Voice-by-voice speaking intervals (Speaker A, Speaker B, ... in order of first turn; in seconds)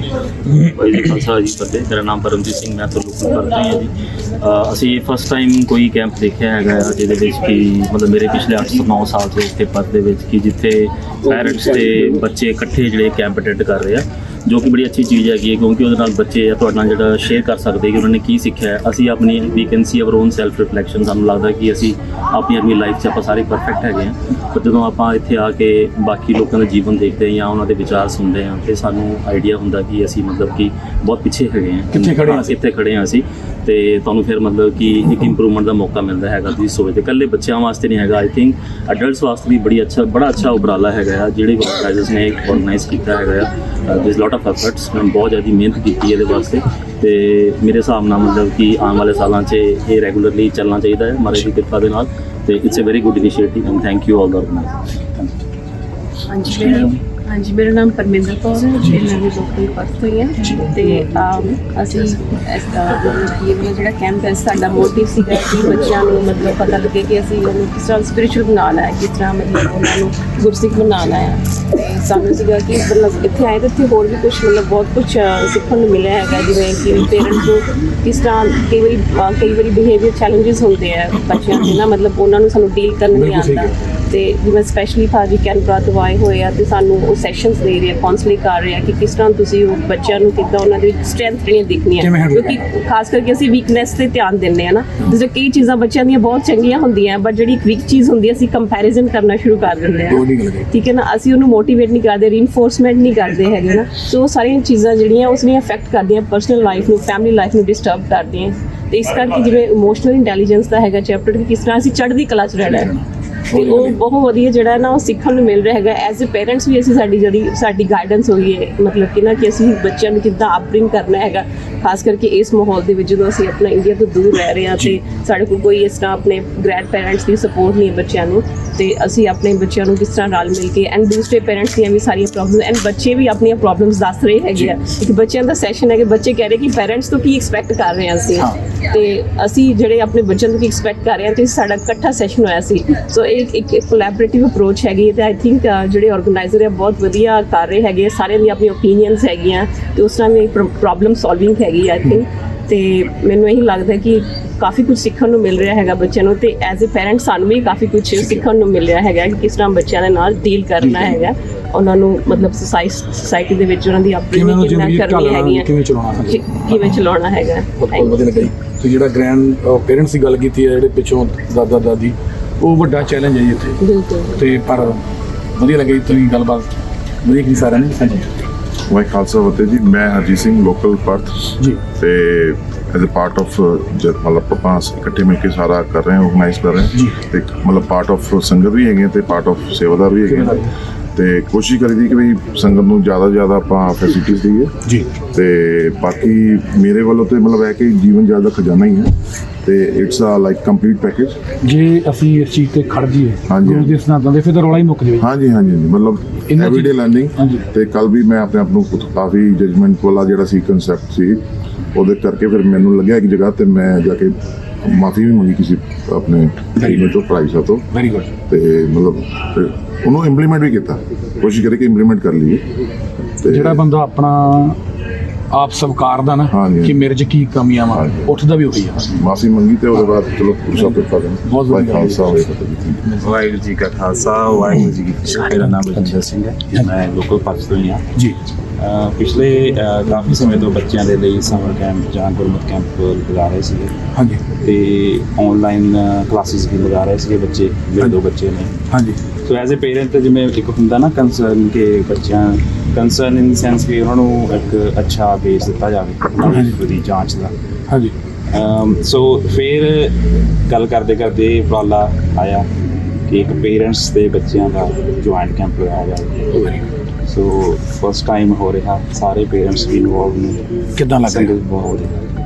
Speaker A: 0.6-54.8
Speaker B: 31.9-32.6, 56.5-56.9, 60.4-60.7, 83.1-83.7, 92.0-92.7, 100.1-100.7, 112.6-114.0, 158.1-158.5, 160.8-161.3, 164.3-167.0, 167.8-173.8, 174.3-175.0, 175.6-176.7, 177.2-178.4, 190.2-190.7, 201.6-205.3, 206.5-207.6, 216.8-217.1, 217.9-218.3, 223.5-224.8, 225.5-229.1, 230.8-232.3, 234.7-236.1, 244.1-244.4, 248.9-249.2, 256.4-256.8, 266.5-266.9, 271.0-271.5
Speaker C: 56.3-112.9, 113.5-165.7, 166.2-168.2, 173.8-174.4
Speaker D: 178.9-190.6, 191.1-194.7, 195.3-199.1, 199.6-201.4, 203.5-203.9, 205.2-217.9, 218.5-222.7, 223.4-223.8, 226.5-227.0, 227.9-228.3, 229.1-233.1
Speaker E: 233.2-238.1, 238.8-244.0, 244.6-248.8, 249.4-257.5, 258.5-262.7, 263.3-266.4, 267.2-270.6, 271.2-272.2